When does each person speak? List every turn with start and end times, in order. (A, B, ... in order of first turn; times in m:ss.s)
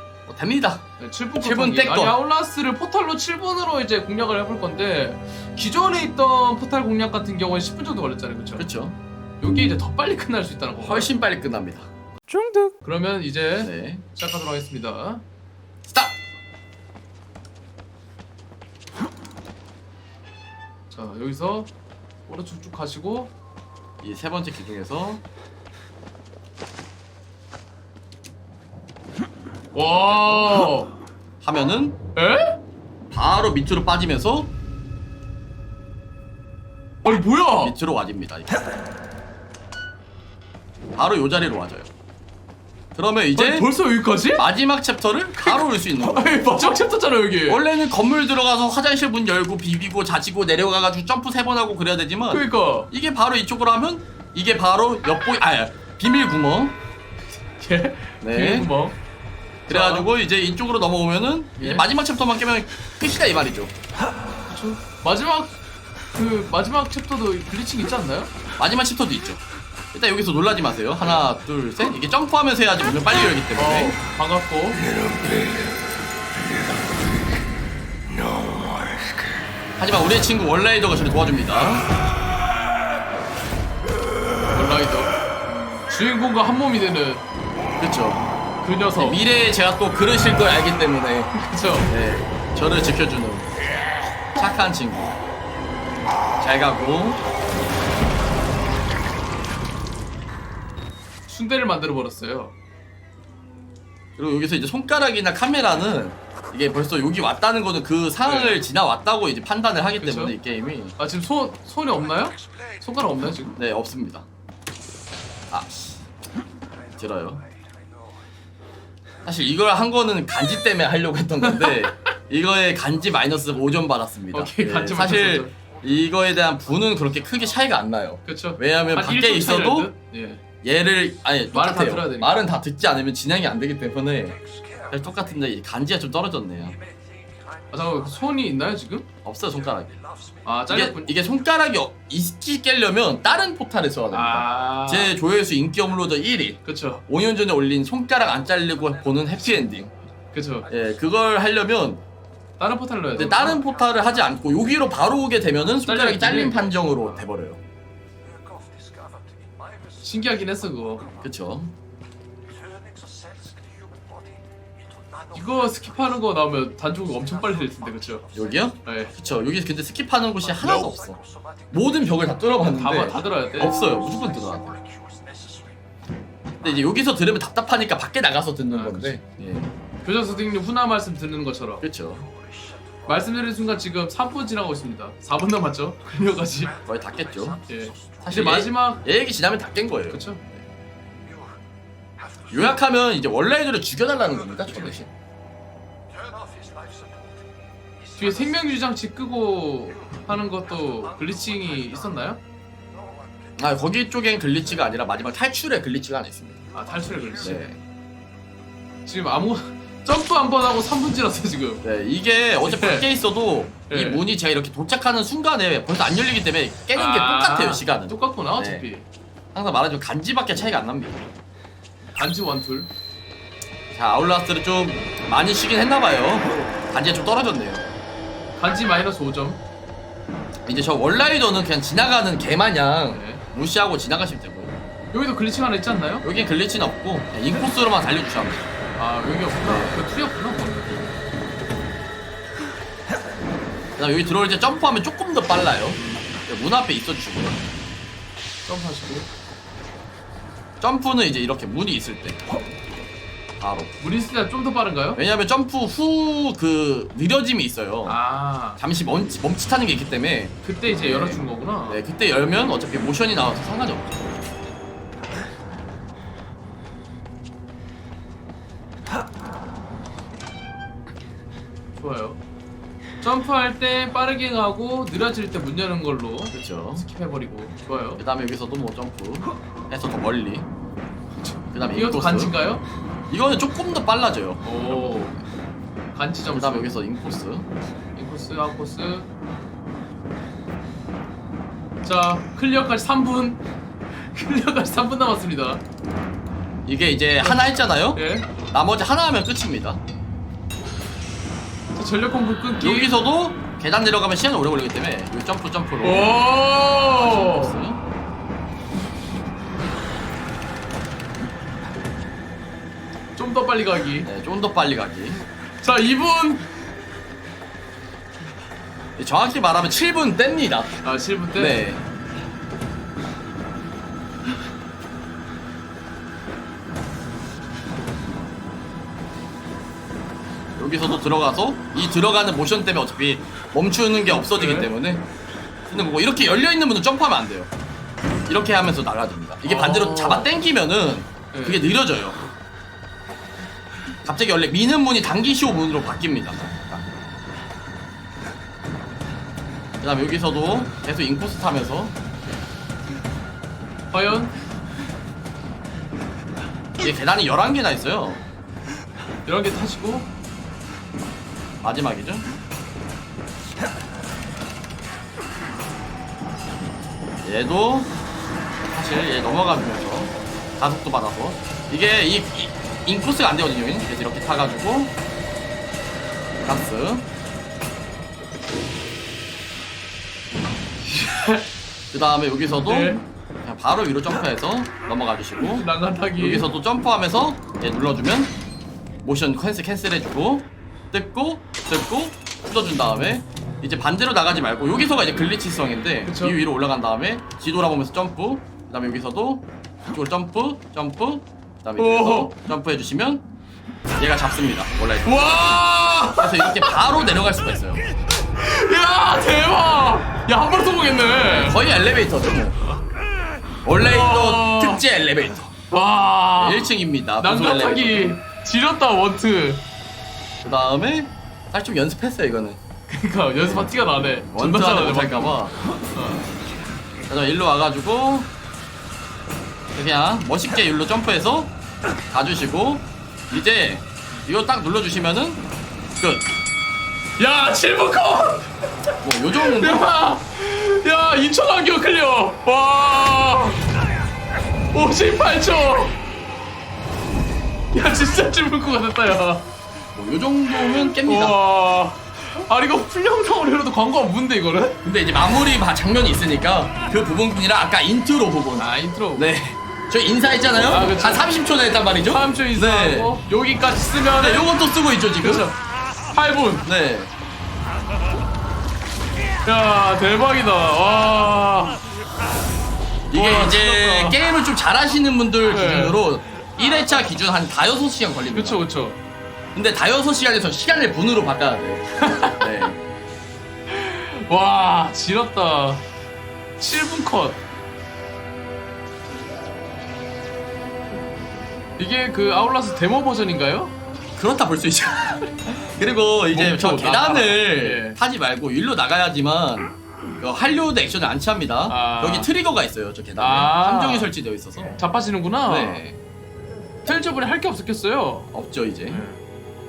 0:00.3-0:00.8 A
0:01.0-0:08.7 B
0:01.4-0:02.2 A
0:08.6-0:09.0 A
0:09.4-0:11.1 B
0:10.8-0:11.9 A
0:12.3-0:15.2 B
0:13.6-0:14.0 A
0:15.8-0:16.2 A
0:20.9-0:21.7 B
0:22.3-0:23.3 B
0:24.0-0:25.2 A
0:29.7-0:30.9 B
0:30.1-0:30.7 A
0:31.4-0:32.0 A
0:32.1-0:32.6 B
0:33.1-0:34.5 A
0:37.0-0:37.8 B
0:37.6-0:38.6 A
0:41.0-0:41.9 A
0:43.0-0:43.7 A
0:43.3-0:44.4 B
0:44.3-0:46.8 A
0:45.4-0:47.6 B
0:47.5-0:56.8 A
0:52.3-0:52.9 B
0:57.6-0:59.0 B
0:58.2-0:58.7 A
0:59.7-1:00.1 B
0:59.7-1:03.7 A
1:01.6-1:01.9 B
1:04.5-1:05.6 B
1:06.1-1:08.3 B
1:08.6-1:09.4 A
1:09.9-1:14.0 A
1:13.6-1:14.9 B
1:19.8-1:21.9 A
1:24.5-1:25.1 B
1:25.9-1:27.2 B
1:27.8-1:28.2 A
1:28.6-1:29.2 B
1:29.0-1:31.3 A
1:31.3-1:31.9 B
1:31.9-1:33.5 A
1:34.4-1:35.2 A
1:36.4-1:37.2 A
1:41.3-1:42.5 B
1:44.2-1:50.9 A
1:48.2-1:48.6 B
1:50.0-1:50.3 B
1:51.0-1:53.6 B
1:53.6-1:54.2 A
1:55.5-1:56.0 A
1:57.0-1:57.4 A
1:59.2-2:09.9 A
2:01.4-2:02.1 B
2:04.3-2:05.5 B
2:08.2-2:10.4 B
2:10.6-2:16.8 A
2:11.5-2:12.4 B
2:17.7-2:19.1 B
2:19.2-2:20.0 A
2:20.4-2:21.2 B
2:20.7-2:29.9 A
2:24.1-2:25.2 B
2:26.6-2:27.0 B
2:30.3-2:30.7 B
2:30.7-2:32.0 A
2:32.6-2:33.6 B
2:33.2-2:37.6 A
2:35.8-2:36.9 B
2:40.0-2:41.1 B
2:41.2-2:41.7 A
2:45.3-2:48.3 B
2:48.3-2:51.2 A
2:48.8-2:49.2 B
2:51.7-2:54.8 A
2:52.7-2:53.8 B
2:56.6-2:59.7 A
2:58.7-2:59.2 B
3:00.0-3:01.8 B
3:01.8-3:02.3 A
3:03.1-3:06.8 B
3:06.8-3:07.6 A
3:07.7-3:09.0 B
3:08.2-3:10.6 A
3:10.1-3:10.4 B
3:12.5-3:15.1 A
3:18.2-3:22.4 B
3:23.6-3:26.6 A
3:26.7-3:27.6 B
3:27.4-3:27.8 A
3:29.1-3:31.8 B
3:31.8-3:38.9 A
3:32.7-3:33.1 B
3:33.9-3:34.2 B
3:36.9-3:39.0 B
3:39.5-3:41.2 A
3:42.2-3:42.9 B
3:43.9-3:47.8 A
3:48.6-3:49.6 B
3:50.7-3:54.7 A
3:53.1-3:53.4 B
3:55.1-3:56.2 B
3:56.2-3:58.7 A
3:59.0-4:01.1 B
3:59.6-4:00.0 A
4:04.0-4:07.6 A
4:08.6-4:09.3 B
4:10.8-4:12.4 A
4:13.6-4:13.9 A
4:14.0-4:15.2 B
4:15.2-4:18.2 A
4:18.1-4:18.8 B
4:18.8-4:24.1 A
4:20.6-4:22.0 B
4:31.9-4:32.4 B
4:33.2-4:38.2 B
4:36.5-4:37.0 A
4:38.2-4:40.7 A
4:41.4-4:42.8 B
4:41.7-4:42.6 A
4:43.3-4:44.8 A
4:44.6-4:45.4 B
4:46.1-4:46.9 B
4:46.5-4:47.7 A
4:48.2-4:49.3 B
4:52.0-4:53.6 B
4:54.1-4:55.8 B
4:56.9-4:58.2 A
4:57.4-4:58.5 B
4:58.7-5:00.0 A
5:01.9-5:03.2 B
5:02.8-5:06.4 A
5:06.0-5:07.8 B
5:07.2-5:08.0 A
5:13.4-5:14.3 B
5:14.2-5:15.4 A
5:15.8-5:16.7 B
5:19.2-5:21.0 A
5:21.0-5:21.8 B
5:21.6-5:22.0 A
5:30.8-5:35.2 A
5:34.3-5:34.9 B
5:35.9-5:37.7 A
5:38.5-5:42.4 A
5:39.6-5:40.5 B
5:41.5-5:41.8 B
5:44.2-5:47.0 A
5:50.0-5:52.1 A
5:54.1-5:54.5 B
5:57.0-5:58.4 A
5:59.4-6:00.3 B
6:01.8-6:02.5 A
6:07.4-6:08.1 A
6:08.9-6:15.1 A
6:16.6-6:17.2 A
6:21.1-6:21.7 B
6:22.1-6:28.5 A
6:22.8-6:23.2 B
6:25.6-6:26.7 B
6:29.2-6:43.4 A
6:36.2-6:36.6 B
6:42.0-6:42.5 B
6:44.2-6:45.4 A
6:45.2-6:46.9 B
6:46.4-6:48.0 A
6:48.6-6:51.8 B
6:51.4-6:52.8 A
6:53.8-6:55.8 A
6:54.0-6:55.0 B
6:55.9-6:59.8 B
6:56.6-6:58.4 A
7:00.6-7:02.8 A
7:03.1-7:05.6 B
7:03.6-7:03.9 A
7:04.5-7:05.8 A
7:06.1-7:06.4 B
7:07.3-7:08.5 A
7:09.9-7:11.7 A
7:12.3-7:15.6 A
7:16.2-7:16.4 A
7:17.4-7:18.8 B
7:19.2-7:20.1 A
7:19.4-7:23.9 B
7:24.9-7:26.2 B
7:27.9-7:29.6 B
7:30.1-7:31.6 A
7:30.8-7:35.0 B
7:35.0-7:43.3 A
7:38.8-7:39.5 B
7:40.8-7:41.5 B
7:42.2-7:44.7 B
7:44.4-7:45.7 A
7:45.4-7:45.8 B
7:46.3-7:46.9 B
7:46.8-7:47.3 A
7:49.6-7:52.0 B
7:53.3-7:58.8 A
7:53.3-7:54.4 B
7:55.7-7:56.2 B
7:58.5-7:59.2 B
7:59.7-8:03.0 A
8:02.2-8:02.9 B
8:03.9-8:06.0 B
8:06.8-8:07.6 B
8:12.0-8:13.9 B
8:14.4-8:24.9 A
8:16.5-8:18.2 B
8:21.9-8:22.5 B
8:23.4-8:24.3 B
8:25.0-8:26.0 B
8:25.7-8:26.2 A
8:27.0-8:28.5 B
8:28.5-8:29.2 A
8:29.1-8:29.4 B